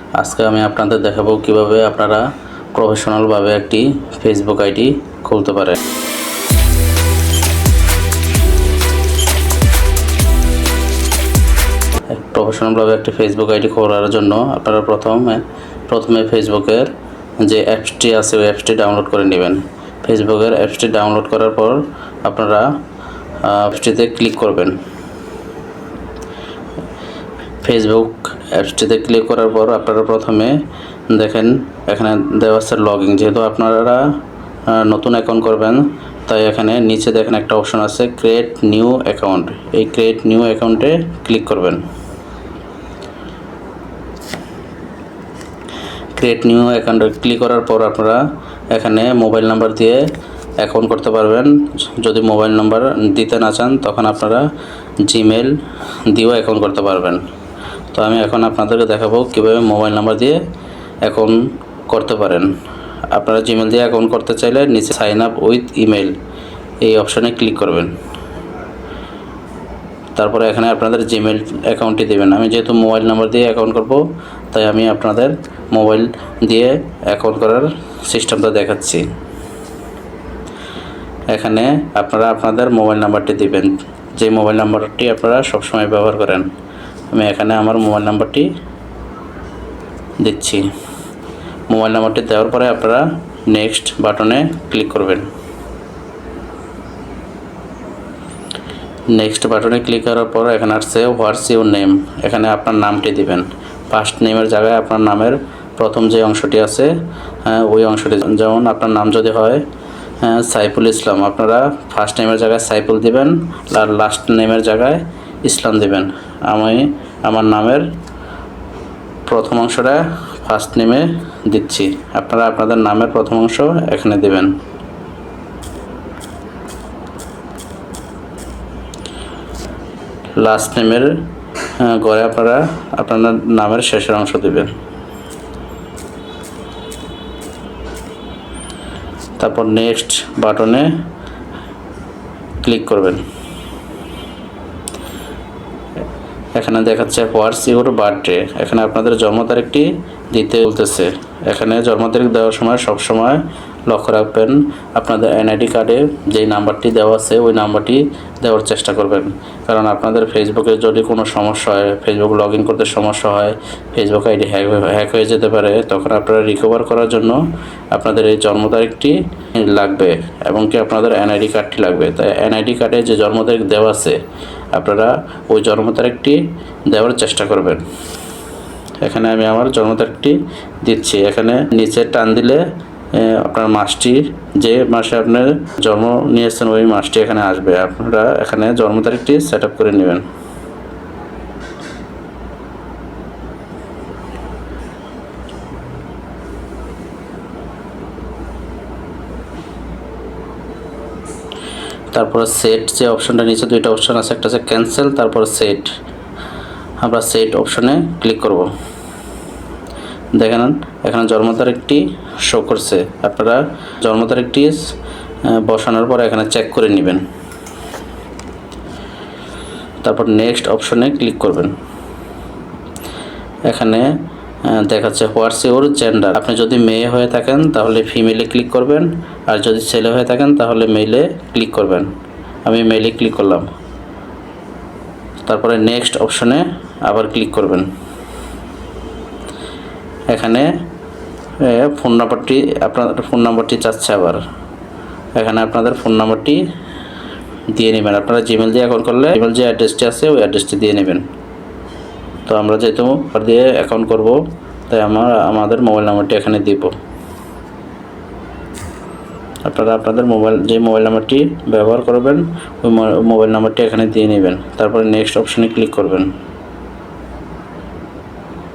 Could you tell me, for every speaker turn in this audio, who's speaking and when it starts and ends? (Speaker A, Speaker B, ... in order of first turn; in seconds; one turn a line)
Speaker A: 0.2-5.8
Speaker A: 12.1-22.7
Speaker A: 23.4-24.8
Speaker A: 27.6-34.2
Speaker A: 34.7-41.9
Speaker A: 46.2-50.0
Speaker A: 50.6-54.5
Speaker A: 55.0-57.3
Speaker A: 57.9-60.4
Speaker A: 61.0-62.6
Speaker A: 63.1-66.2
Speaker A: 66.8-68.0
Speaker A: 70.2-79.1
Speaker A: 81.3-86.5
Speaker A: 87.1-88.5
Speaker A: 90.2-90.7
Speaker A: 91.7-95.3
Speaker A: 99.1-106.9
Speaker A: 107.5-109.7
Speaker A: 110.2-117.9
Speaker A: 119.3-124.6
Speaker A: 130.4-131.2
Speaker A: 131.8-134.8
Speaker A: 139.4-140.9
Speaker A: 142.6-143.2
Speaker A: 146.6-174.2
Speaker A: 174.7-177.9
Speaker A: 179.0-190.3
Speaker A: 202.1-205.9
Speaker A: 207.0-208.7
Speaker A: 210.4-214.9
Speaker A: 215.5-217.2
Speaker A: 220.0-221.8
Speaker A: 223.7-224.1
Speaker A: 224.7-232.1
Speaker A: 232.7-233.7
Speaker A: 235.4-237.9
Speaker A: 240.3-240.7
Speaker A: 241.6-244.4
Speaker A: 245.4-246.6
Speaker A: 247.7-251.3
Speaker A: 252.5-256.9
Speaker A: 259.6-266.3